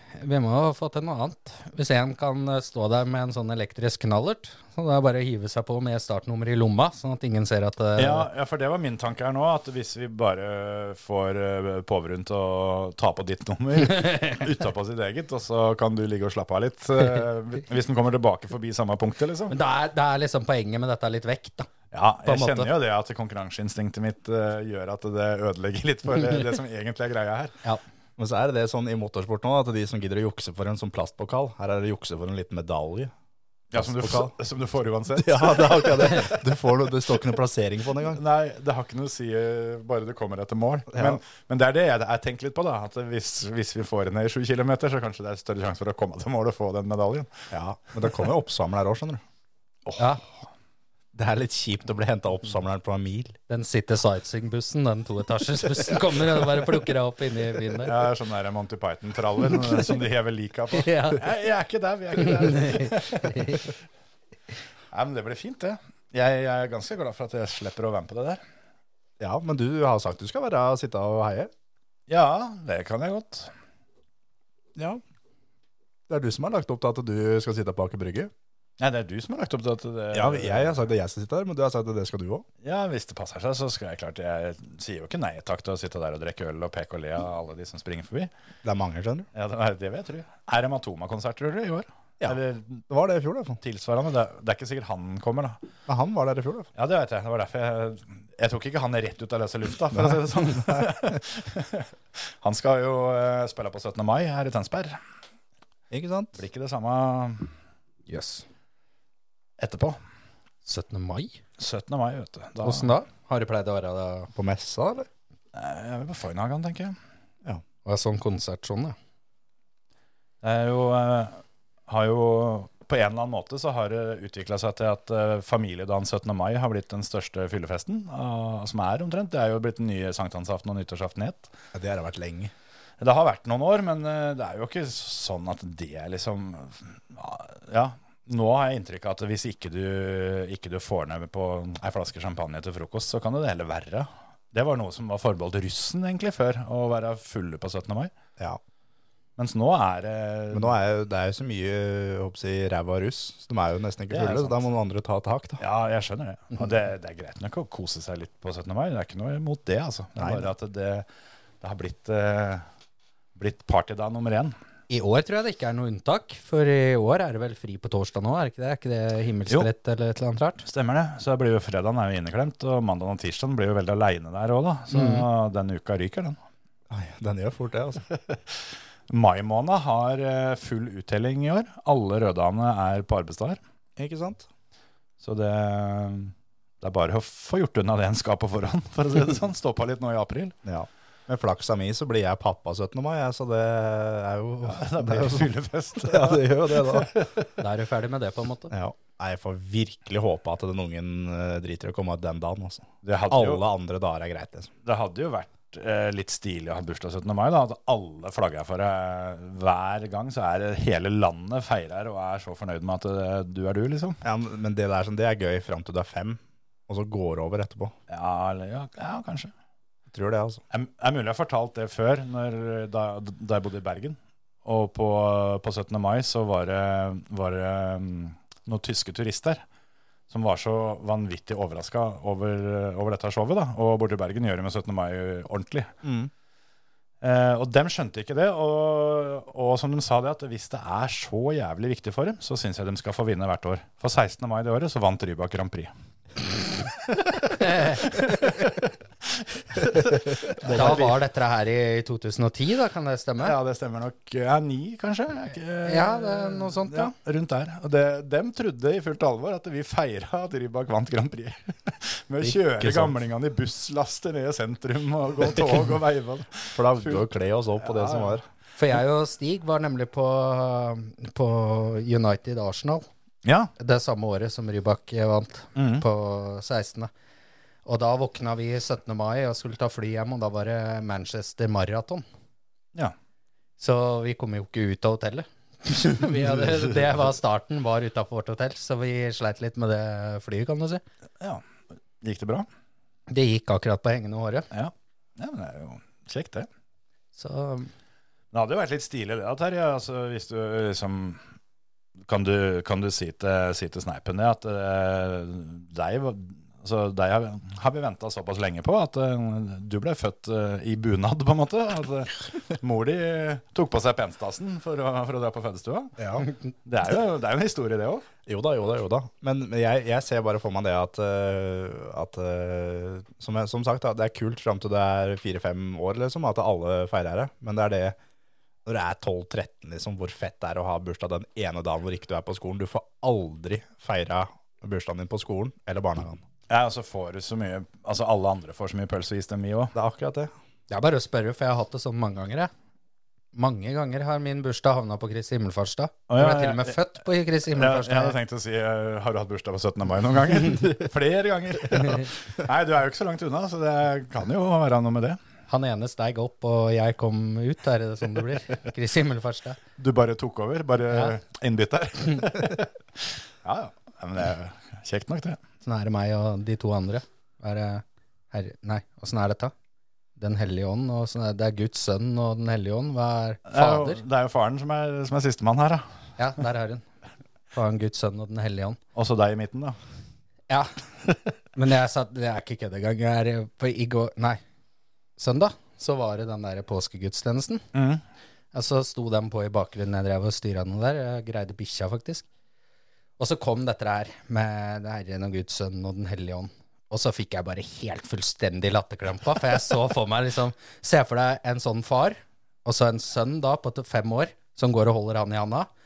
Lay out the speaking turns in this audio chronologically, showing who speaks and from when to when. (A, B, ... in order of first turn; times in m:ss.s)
0:00.2-0:08.3 A
0:08.0-0:19.6 B
0:19.5-0:21.7 A
0:21.9-0:27.6 B
0:22.3-0:22.6 A
0:28.2-0:33.1 C
0:33.7-0:36.4 B
0:33.7-0:34.3 C
0:35.2-0:38.2 C
0:38.1-0:47.3 B
0:40.9-0:41.2 C
0:47.5-0:49.2 C
0:50.0-0:50.2 A
0:51.1-0:53.4 C
0:53.5-0:58.0 A
0:57.8-1:03.8 B
1:00.7-1:01.2 A
1:02.4-1:03.6 A
1:04.9-1:08.4 B
1:09.2-1:11.5 C
1:12.1-1:13.5 B
1:14.8-1:15.0 C
1:16.1-1:18.3 C
1:18.8-1:20.9 B
1:20.1-1:22.5 C
1:22.6-1:28.3 B
1:28.6-1:29.3 C
1:29.3-1:32.8 B
1:32.2-1:33.6 C
1:33.6-1:35.6 B
1:35.9-1:36.7 C
1:36.8-1:41.9 B
1:39.9-1:41.2 C
1:42.4-1:45.0 B
1:45.9-1:46.4 C
1:46.4-1:47.5 B
1:48.1-1:48.5 A
1:49.6-1:50.0 B
1:50.7-1:51.4 A
1:51.6-1:52.9 B
1:52.6-1:54.3 A
1:54.4-1:55.1 C
1:55.5-1:57.0 B
1:57.8-1:59.0 A
2:00.4-2:11.5 B
2:11.7-2:12.5 C
2:13.0-2:28.1 B
2:29.4-2:30.8 B
2:30.5-2:35.6 C
2:34.1-2:34.6 B
2:35.6-2:41.1 B
2:40.2-2:40.5 C
2:41.6-2:42.7 B
2:43.4-2:44.6 B
2:44.9-2:50.6 A
2:50.6-2:56.4 B
2:54.9-2:55.3 A
2:56.9-2:58.0 C
2:58.2-3:03.6 B
3:04.0-3:04.5 C
3:05.2-3:10.6 B
3:10.6-3:17.1 C
3:14.6-3:17.5 B
3:17.6-3:18.7 A
3:18.7-3:24.7 C
3:23.0-3:23.6 B
3:24.8-3:34.2 B
3:34.2-3:38.0 C
3:38.1-3:39.5 B
3:40.1-3:40.6 C
3:40.7-3:49.6 B
3:50.3-3:55.9 B
3:56.0-3:56.3 C
3:57.2-4:05.9 B
4:06.6-4:11.2 B
4:07.6-4:08.0 A
4:10.6-4:11.0 C
4:10.7-4:13.6 A
4:13.4-4:27.3 B
4:15.8-4:17.1 A
4:22.4-4:23.1 C
4:26.7-4:28.5 C
4:27.8-4:28.4 B
4:28.8-4:33.1 A
4:33.4-4:33.7 B
4:33.8-4:37.1 A
4:35.8-4:36.1 B
4:37.9-4:42.2 A
4:43.8-4:51.0 A
4:52.2-4:52.7 B
4:53.3-4:54.7 A
4:54.7-4:56.7 B
4:57.4-4:57.9 A
4:58.5-5:01.4 B
5:02.3-5:16.2 B
5:16.2-5:16.5 C
5:16.8-5:18.2 B
5:18.5-5:28.2 C
5:28.8-5:36.4 C
5:36.7-5:39.9 B
5:39.9-5:40.5 C
5:40.9-5:42.7 A
5:43.5-5:48.4 A
5:46.3-5:47.0 B
5:47.7-5:55.4 B
5:55.7-5:59.8 A
6:00.0-6:05.6 B
6:05.8-6:09.7 A
6:10.4-6:14.2 A
6:13.7-6:16.0 B
6:16.4-6:17.0 A
6:17.7-6:19.0 A
6:19.2-6:20.0 B
6:20.7-6:21.0 A
6:21.7-6:24.6 A
6:25.4-6:27.8 A
6:27.9-6:28.2 B
6:28.7-6:32.5 A
6:33.4-6:45.9 A